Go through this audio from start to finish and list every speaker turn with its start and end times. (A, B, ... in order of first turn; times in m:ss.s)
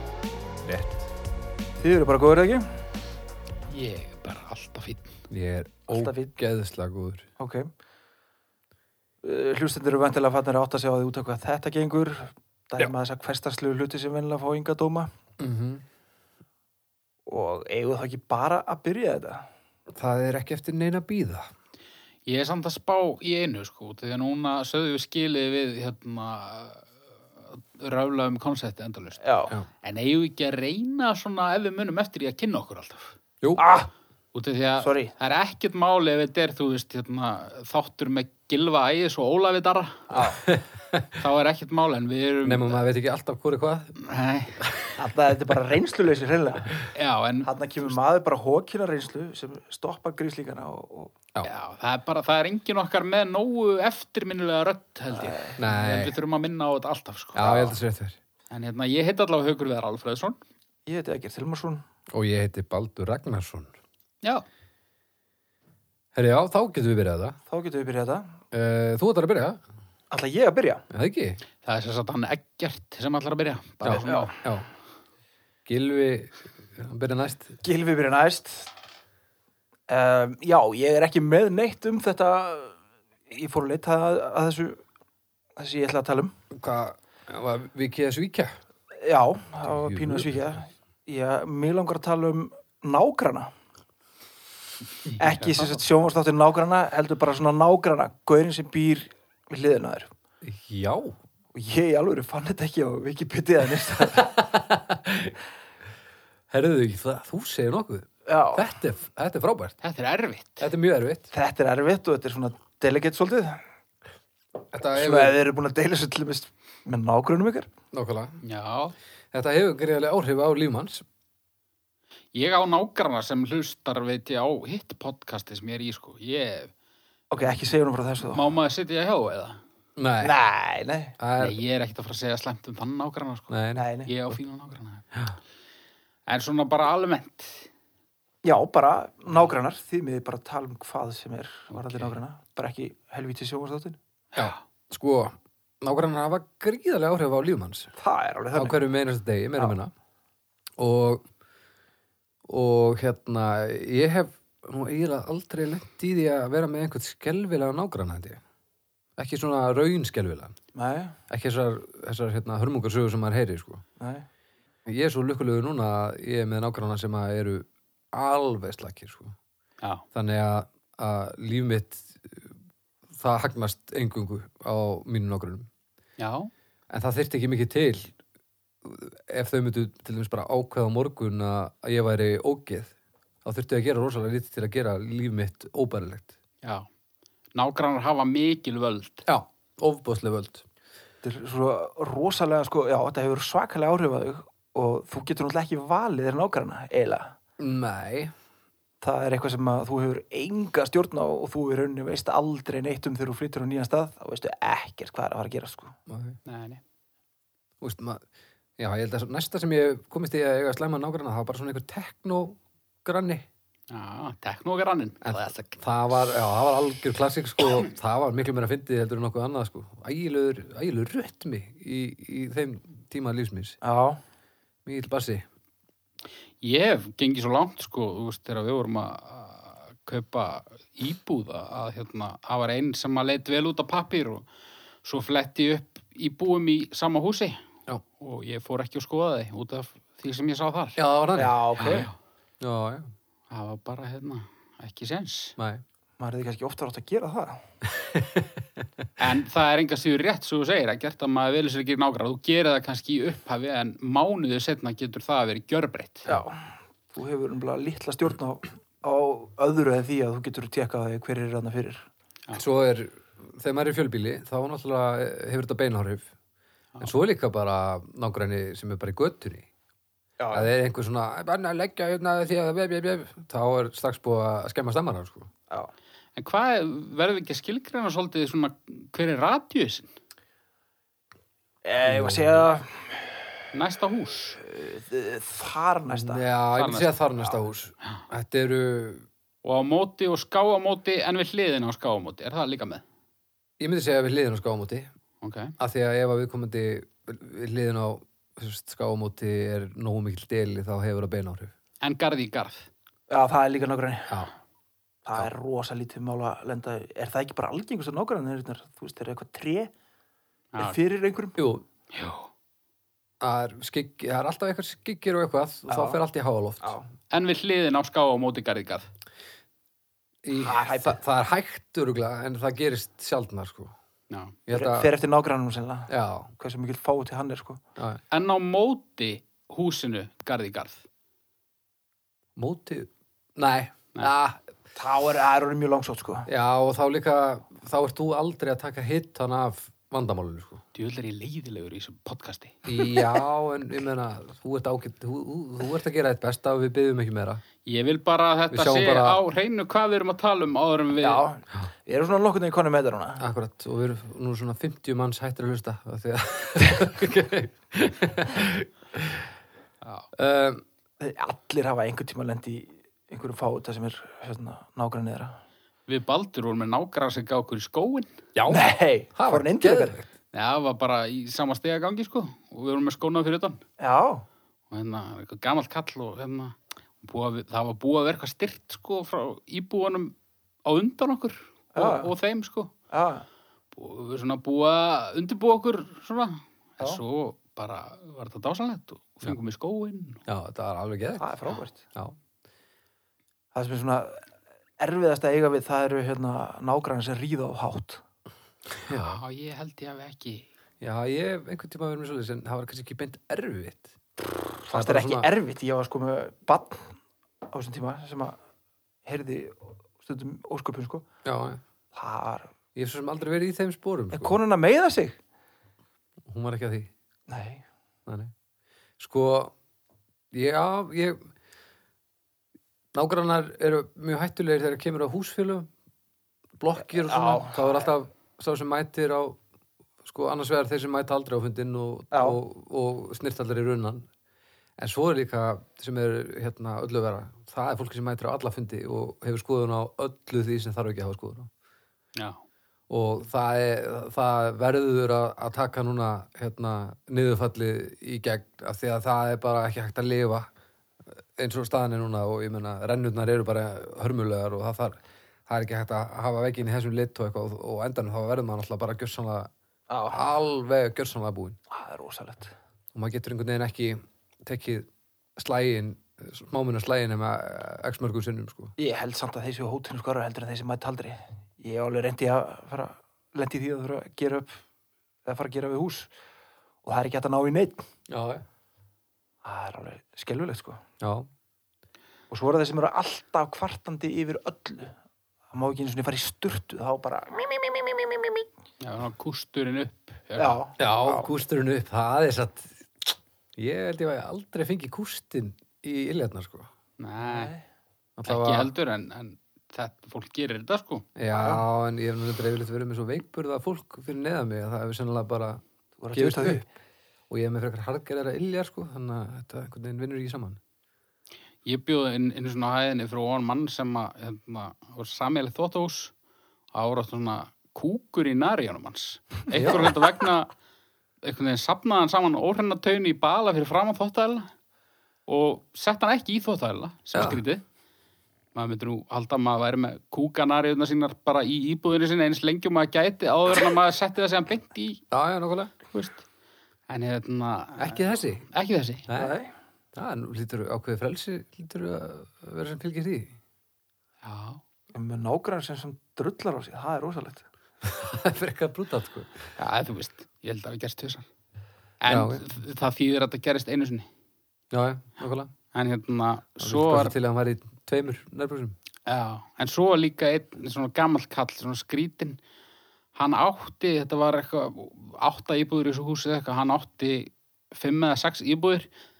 0:00.6-0:01.1 A
0:01.8-0:02.8 B
0:03.7-0:05.1 C
0:05.3-0:07.3 A
0:05.9-0:06.4 B
0:07.4-0:07.7 B
0:09.2-0:15.1 B
0:15.4-0:15.8 A
0:17.3-0:19.5 B
0:19.9-0:21.5 A
0:22.3-0:26.9 C
0:27.4-0:29.2 C
0:29.2-0:29.5 B
0:29.8-0:33.2 C
0:33.6-0:33.9 B
0:34.3-0:40.2 C
0:34.8-0:35.1 B
0:40.1-0:40.4 B
0:40.2-0:41.1 A
0:41.2-0:42.8 C
0:42.4-0:44.0 A
0:44.0-0:44.7 C
0:44.6-0:44.9 A
0:45.0-0:46.8 B
0:46.9-0:47.5 C
0:47.4-0:51.1 B
0:51.4-0:57.7 C
0:55.1-0:55.6 B
0:55.6-0:56.2 A
0:57.4-0:58.2 A
0:57.4-0:57.8 B
0:58.5-1:00.4 C
1:00.9-1:01.8 B
1:02.1-1:03.7 A
1:06.2-1:07.4 A
1:07.5-1:08.4 B
1:08.5-1:09.6 A
1:10.1-1:10.9 B
1:10.9-1:11.4 A
1:11.6-1:14.3 C
1:13.8-1:14.7 A
1:13.9-1:14.4 B
1:15.7-1:17.6 A
1:17.6-1:18.7 B
1:19.9-1:22.8 B
1:23.3-1:24.8 B
1:25.6-1:26.4 B
1:26.5-1:28.6 A
1:29.0-1:33.5 B
1:29.6-1:30.6 A
1:35.2-1:35.7 C
1:35.2-1:40.1 B
1:35.4-1:35.7 A
1:40.4-1:41.2 A
1:41.5-1:44.4 B
1:44.0-1:45.4 A
1:46.5-1:49.8 A
1:48.3-1:48.7 B
1:49.8-1:50.7 C
1:50.6-1:51.3 A
1:51.3-1:53.6 B
1:54.7-1:55.4 A
1:55.0-1:57.7 B
1:57.9-1:58.4 A
1:58.4-1:59.0 C
1:59.3-2:01.0 A
2:02.3-2:06.7 C
2:07.3-2:08.5 B
2:08.3-2:09.6 C
2:10.0-2:10.4 A
2:10.2-2:11.2 B
2:11.2-2:11.6 A
2:11.4-2:13.5 C
2:13.5-2:13.9 A
2:13.8-2:14.1 B
2:14.0-2:15.1 C
2:16.3-2:17.7 C
2:18.4-2:24.0 B
2:21.7-2:22.1 C
2:24.3-2:24.6 C
2:24.4-2:27.9 A
2:28.0-2:28.8 B
2:28.5-2:29.9 A
2:30.8-2:31.2 A
2:32.5-2:38.4 A
2:39.2-2:40.6 A
2:40.7-2:41.2 B
2:41.3-2:43.8 A
2:44.0-2:44.3 B
2:44.9-2:49.4 A
2:50.1-2:52.6 A
2:53.2-2:55.7 A
2:56.2-2:56.5 C
2:56.9-2:58.1 A
2:58.8-3:06.3 A
3:07.6-3:09.2 C
3:09.3-3:10.6 A
3:11.2-3:17.4 B
3:17.6-3:18.3 A
3:19.0-3:26.0 B
3:26.1-3:26.4 A
3:26.4-3:26.8 C
3:27.8-3:28.2 A
3:28.8-3:33.5 A
3:33.9-3:35.8 C
3:35.2-3:43.8 A
3:43.8-3:44.2 B
3:44.8-3:45.4 A
3:46.6-3:54.5 C
3:55.0-3:57.6 C
3:58.2-4:01.0 C
4:01.0-4:02.1 A
4:01.4-4:02.1 B
4:01.8-4:02.1 C
4:02.6-4:03.1 A
4:03.5-4:05.6 C
4:05.6-4:05.8 A
4:06.2-4:07.7 B
4:07.9-4:08.6 A
4:09.2-4:16.4 C
4:16.3-4:22.1 B
4:22.5-4:26.3 A
4:27.0-4:29.7 A
4:30.4-4:30.7 B
4:30.5-4:35.5 A
4:36.4-4:40.1 C
4:41.8-4:43.5 B
4:42.0-4:42.7 A
4:43.7-4:44.6 C
4:44.6-4:46.4 B
4:46.2-4:49.3 A
4:46.7-4:47.2 C
4:49.6-4:53.0 C
4:53.8-4:55.1 A
4:55.4-4:55.7 C
4:55.8-5:01.7 A
5:02.0-5:02.9 C
5:03.3-5:04.5 B
5:05.2-5:09.9 B
5:10.8-5:11.6 B
5:11.6-5:11.8 A
5:12.1-5:12.5 C
5:13.4-5:16.9 A
5:15.9-5:16.2 B
5:16.8-5:17.1 B
5:17.3-5:19.1 C
5:20.4-5:23.9 A
5:20.6-5:21.2 B
5:24.3-5:24.6 C
5:24.7-5:25.1 A
5:24.7-5:27.8 B
5:26.1-5:26.5 A
5:28.3-5:31.0 C
5:32.6-5:34.7 A
5:35.0-5:36.5 B
5:36.5-5:40.8 A
5:41.0-5:43.2 C
5:42.9-5:47.6 A
5:47.8-5:51.4 C
5:48.7-5:49.4 A
5:51.2-5:53.4 B
5:53.4-5:59.5 A
6:00.0-6:00.3 C
6:00.4-6:00.8 A
6:01.2-6:05.6 B
6:06.1-6:08.3 C
6:08.6-6:10.3 A
6:08.7-6:10.2 B
6:10.5-6:13.8 C
6:14.0-6:14.4 B
6:14.9-6:20.3 C
6:20.9-6:22.9 C
6:22.0-6:22.3 B
6:23.1-6:23.5 B
6:23.9-6:30.4 C
6:30.5-6:31.4 A
6:31.4-6:32.0 B
6:33.7-6:34.5 B
6:35.0-6:38.2 B
6:39.1-6:39.4 A
6:39.1-6:40.7 C
6:41.0-6:44.2 A
6:44.8-6:47.2 B
6:44.9-6:45.5 A
6:47.7-6:48.6 B
6:49.2-6:51.3 B
6:51.4-6:51.8 A
6:52.1-6:52.7 B
6:53.0-6:54.6 A
6:54.3-6:55.4 B
6:56.5-6:57.1 A
6:57.5-6:57.8 B
6:58.3-6:58.5 A
6:59.2-6:59.7 A
7:00.5-7:01.4 A
7:03.1-7:05.9 A
7:06.8-7:09.6 A
7:07.2-7:08.1 B
7:10.2-7:14.3 A
7:12.3-7:12.6 B
7:15.0-7:21.7 A
7:23.1-7:30.7 A
7:31.6-7:39.7 A
7:40.1-7:40.5 B
7:40.3-7:41.8 A
7:41.9-7:42.7 B
7:43.1-7:49.0 A
7:49.0-7:54.8 B
7:55.4-7:56.3 B
7:57.0-7:58.0 B
7:58.3-7:58.6 A
7:59.6-8:01.0 B
8:01.2-8:01.5 A
8:02.5-8:05.2 B
8:05.7-8:08.5 B
8:09.0-8:10.8 C
8:10.6-8:11.5 B
8:11.0-8:16.9 A
8:17.2-8:17.7 C
8:17.4-8:17.8 B
8:18.4-8:18.9 A
8:18.4-8:21.3 C
8:21.4-8:25.8 A
8:21.5-8:21.8 B
8:26.2-8:26.9 B
8:26.3-8:26.8 A
8:27.5-8:30.8 A
8:31.8-8:36.3 C
8:36.9-8:40.7 C
8:39.7-8:40.1 A
8:41.4-8:44.7 C
8:45.5-8:47.8 C
8:47.3-8:47.6 A
8:48.7-8:55.2 C
8:55.3-8:55.9 A
8:56.1-8:56.4 C
8:57.1-8:59.3 C
8:58.0-8:58.6 A
8:59.3-8:59.6 A
8:59.4-8:59.7 B
9:00.2-9:03.6 A
9:04.4-9:04.8 C
9:05.1-9:07.7 B
9:08.0-9:09.7 A
9:09.8-9:11.5 C
9:12.2-9:14.3 C
9:12.3-9:12.6 A
9:14.9-9:15.7 A
9:15.9-9:17.3 C
9:16.8-9:19.0 A
9:19.3-9:22.6 C
9:23.4-9:29.1 C